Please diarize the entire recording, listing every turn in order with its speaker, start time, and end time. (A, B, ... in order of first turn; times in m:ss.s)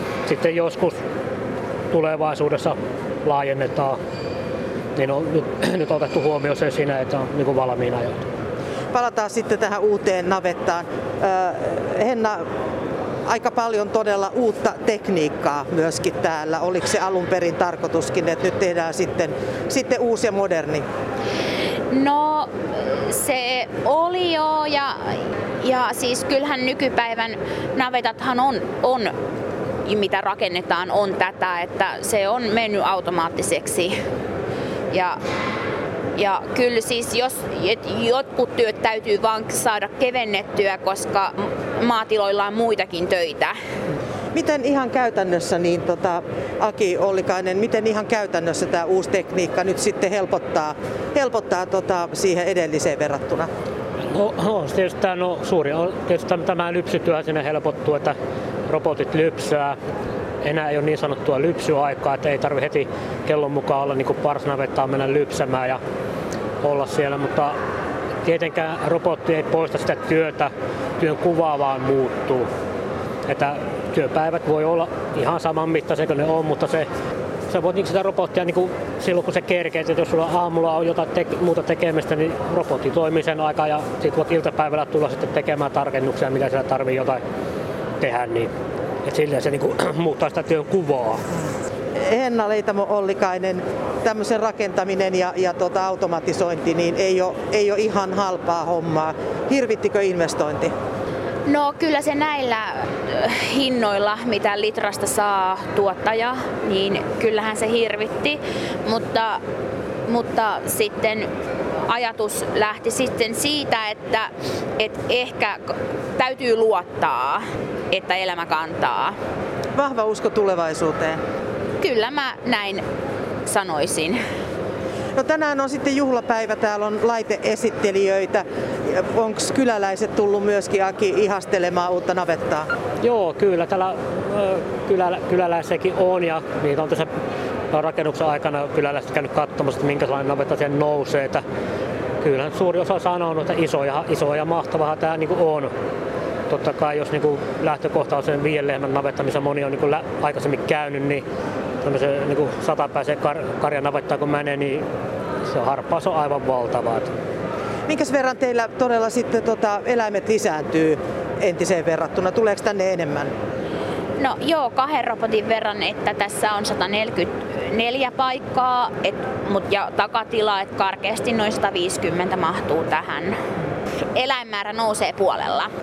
0:00.2-0:01.0 A
0:01.9-0:04.0 A
0:05.0-0:08.2 A
0:08.9-0:12.4 B
0:13.3-0:20.8 B
0:21.9-0:29.1 C
0:29.8-0:33.9 C
0:34.9-0:35.2 C
0:36.2-0:43.6 C
0:44.3-0:53.5 B
0:54.1-0:58.2 A
0:58.7-0:59.8 A
1:00.4-1:05.8 A
1:06.6-1:07.6 A
1:08.2-1:12.5 A
1:13.3-1:16.9 A
1:17.5-1:27.2 A
1:28.0-1:28.5 A
1:29.0-1:31.2 A
1:32.0-1:40.7 B
1:41.4-1:49.4 C
1:50.1-1:51.3 C
1:51.9-1:55.6 C
1:56.2-1:59.2 C
1:59.8-2:01.2 B
2:01.8-2:02.8 C
2:03.4-2:04.2 C
2:05.2-2:12.7 B
2:13.0-2:17.1 A
2:17.7-2:21.4 A
2:22.2-2:25.7 A
2:26.5-2:31.2 A
2:31.8-2:34.8 A
2:35.4-2:37.1 A
2:37.9-2:43.3 B
2:44.2-2:53.4 C
2:54.1-2:55.7 C